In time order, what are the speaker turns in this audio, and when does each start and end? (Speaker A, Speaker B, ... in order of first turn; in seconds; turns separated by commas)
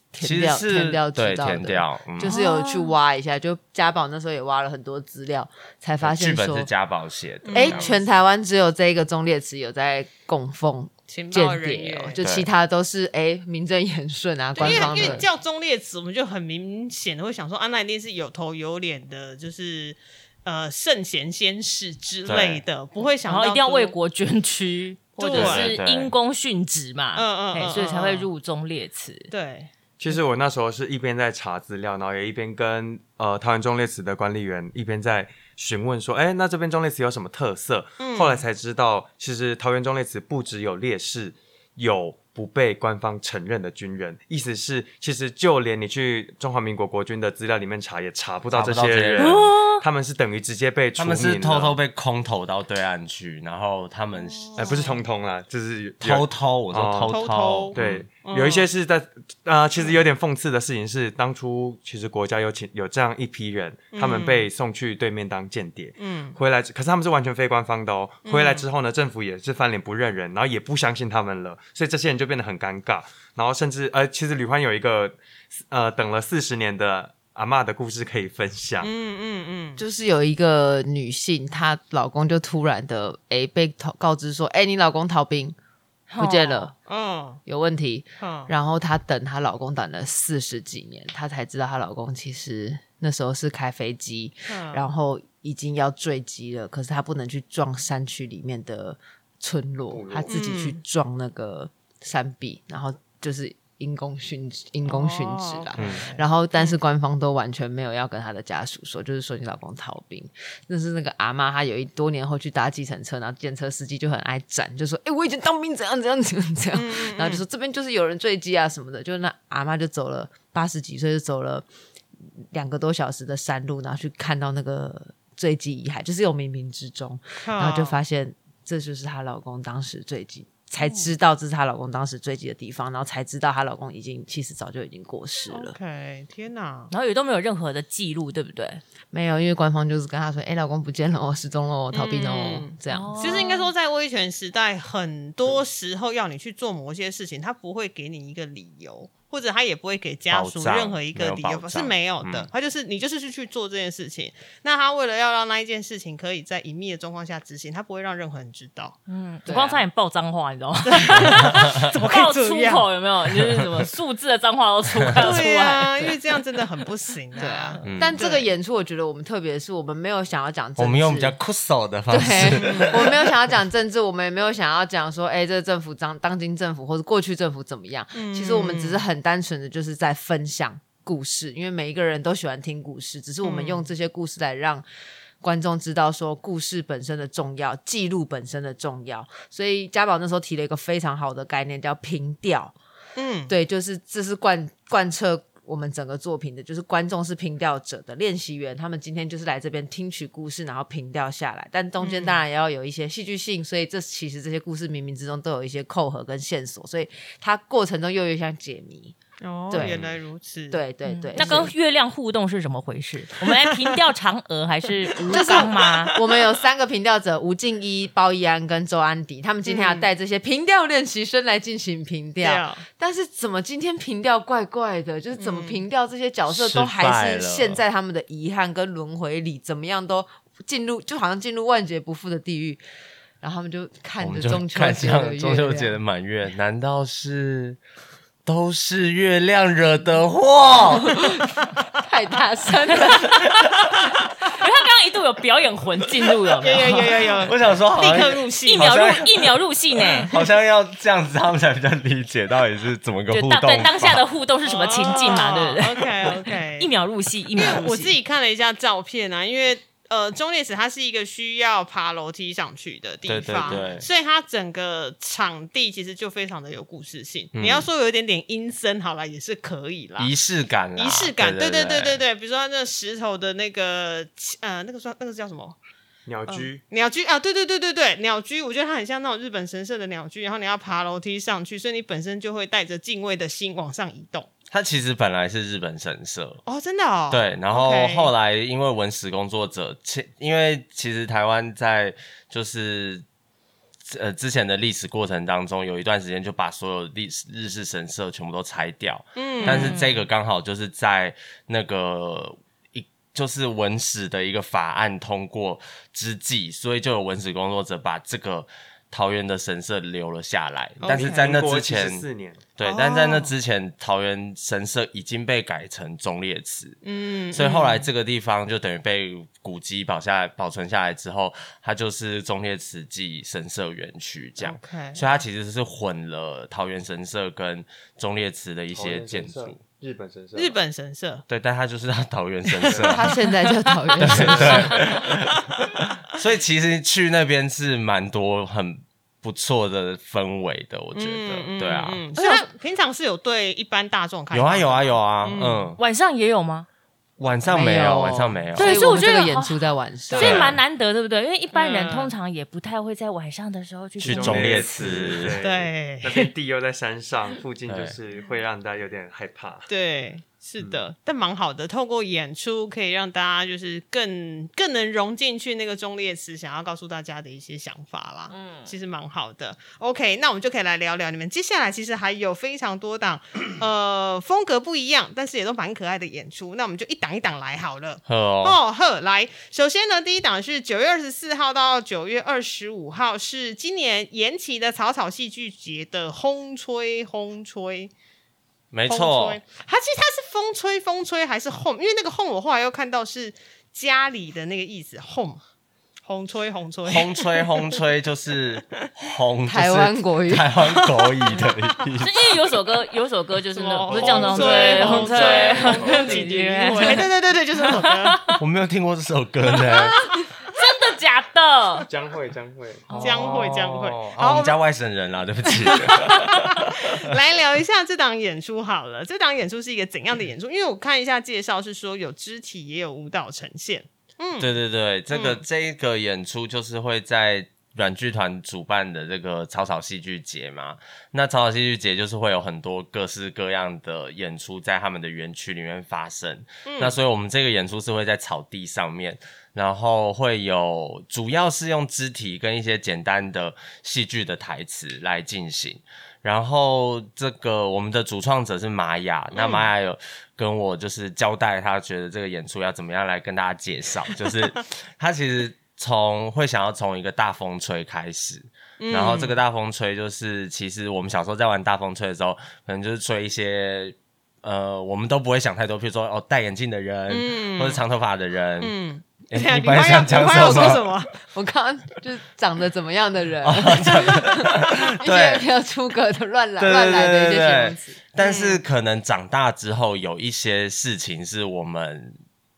Speaker A: 0.1-6.7, Speaker B: 0.2-2.3, Speaker C: 2.3-2.9, Speaker B: 6.0-7.9, Speaker D: 7.4-8.0, Speaker A: 7.5-15.2, Speaker D: 11.1-12.2, Speaker B: 12.2-12.5, Speaker D: 14.6-23.9, Speaker C: 14.6-15.1, Speaker B: 22.2-22.6, Speaker C: 23.2-29.3, Speaker D: 25.2-25.8, Speaker B: 25.3-26.1, Speaker D: 27.1-28.3, Speaker D: 29.3-29.7, Speaker E: 30.0-51.8, Speaker D: 38.0-38.4, Speaker B: 48.5-49.6, Speaker C: 49.2-49.8, Speaker B: 51.0-54.6, Speaker D: 54.2-55.0, Speaker E: 54.6-57.1, Speaker B: 56.0-58.0, Speaker D: 57.1-58.7, Speaker E: 57.7-78.9, Speaker D: 63.9-64.5, Speaker D: 66.0-66.4, Speaker D: 68.2-68.7, Speaker D: 78.8-79.8, Speaker A: 79.8-85.5, Speaker C: 86.1-86.7, Speaker A: 86.2-86.7, Speaker D: 86.7-87.4, Speaker A: 87.5-121.7, Speaker D: 88.2-88.5, Speaker D: 94.5-94.8, Speaker E: 99.9-100.3, Speaker D: 100.3-100.8, Speaker D: 104.8-106.8, Speaker B: 105.8-106.0, Speaker D: 116.7-117.4, Speaker A: 122.5-135.8, Speaker D: 127.4-128.0, Speaker D: 130.8-131.1, Speaker D: 135.5-136.9, Speaker C: 136.9-138.8, Speaker A: 139.1-143.4, Speaker D: 141.9-159.0, Speaker C: 142.9-143.7, Speaker B: 150.3-152.5, Speaker C: 159.1-166.0, Speaker A: 159.4-159.8, Speaker D: 160.8-162.9, Speaker D: 165.2-168.5, Speaker A: 167.4-171.3, Speaker B: 167.8-168.2, Speaker B: 170.8-173.1, Speaker A: 172.1-184.8, Speaker D: 172.6-173.0, Speaker D: 178.1-179.0, Speaker D: 183.4-183.9, Speaker A: 185.4-192.7, Speaker D: 193.2-193.5, Speaker A: 193.5-209.1, Speaker D: 202.0-202.4, Speaker D: 209.4-210.8, Speaker A: 209.7-210.0, Speaker B: 209.8-210.1, Speaker A: 210.7-211.7, Speaker C: 211.1-216.1, Speaker D: 211.4-211.6, Speaker D: 215.2-216.2, Speaker A: 215.2-232.8, Speaker D: 219.6-220.1, Speaker D: 222.4-222.8, Speaker D: 225.4-225.8, Speaker B: 226.5-227.8, Speaker A: 233.4-236.0, Speaker B: 234.2-237.8, Speaker B: 238.4-241.3, Speaker A: 242.0-243.4, Speaker C: 244.5-247.5, Speaker D: 246.6-249.0, Speaker B: 247.4-249.5, Speaker C: 248.2-250.3, Speaker B: 250.2-254.2, Speaker C: 253.3-258.2, Speaker D: 254.6-256.9, Speaker D: 257.5-270.3, Speaker B: 263.2-264.1, Speaker B: 267.5-267.9, Speaker B: 270.2-272.2, Speaker D: 270.9-275.8, Speaker E: 276.2-276.8, Speaker D: 276.5-284.5, Speaker B: 284.7-286.6, Speaker D: 286.6-288.3, Speaker B: 287.3-293.2, Speaker B: 294.0-312.2, Speaker D: 299.4-300.0, Speaker C: 299.6-300.2, Speaker D: 311.0-311.5, Speaker E: 311.0-312.6, Speaker B: 312.8-317.0, Speaker D: 312.8-313.5, Speaker D: 317.0-318.1, Speaker B: 317.5-329.8, Speaker D: 324.6-325.2, Speaker E: 328.9-330.8, Speaker D: 330.5-331.4, Speaker B: 331.5-333.3, Speaker E: 332.9-333.1, Speaker A: 333.0-334.9, Speaker B: 334.2-342.2, Speaker D: 341.1-345.9, Speaker B: 344.5-346.0, Speaker C: 346.0-346.9, Speaker B: 347.4-348.9, Speaker A: 347.6-350.7, Speaker C: 348.8-355.0, Speaker B: 350.4-350.8, Speaker D: 351.7-352.3, Speaker E: 354.2-359.9, Speaker B: 354.2-355.6, Speaker D: 355.6-356.5, Speaker B: 357.9-358.2, Speaker D: 359.9-388.1, Speaker C: 368.5-368.9, Speaker B: 378.2-378.8, Speaker B: 388.9-389.6, Speaker D: 389.1-395.6, Speaker D: 396.2-397.9, Speaker B: 397.0-402.6, Speaker A: 399.7-400.7, Speaker C: 402.2-407.3, Speaker D: 403.7-408.5, Speaker E: 404.1-406.8, Speaker B: 404.9-405.3, Speaker C: 407.9-408.6, Speaker B: 408.6-410.2, Speaker C: 409.8-412.1, Speaker E: 412.1-413.4, Speaker B: 413.1-417.3, Speaker D: 413.1-414.8, Speaker D: 415.8-424.7, Speaker B: 424.6-468.9, Speaker D: 425.3-425.6, Speaker D: 436.8-437.1, Speaker D: 449.5-449.9, Speaker D: 459.0-459.6, Speaker D: 467.3-468.0, Speaker D: 468.8-471.3, Speaker B: 469.5-471.1, Speaker A: 470.6-470.9, Speaker A: 471.5-478.2, Speaker B: 473.6-475.6, Speaker B: 476.8-482.4, Speaker D: 478.4-478.8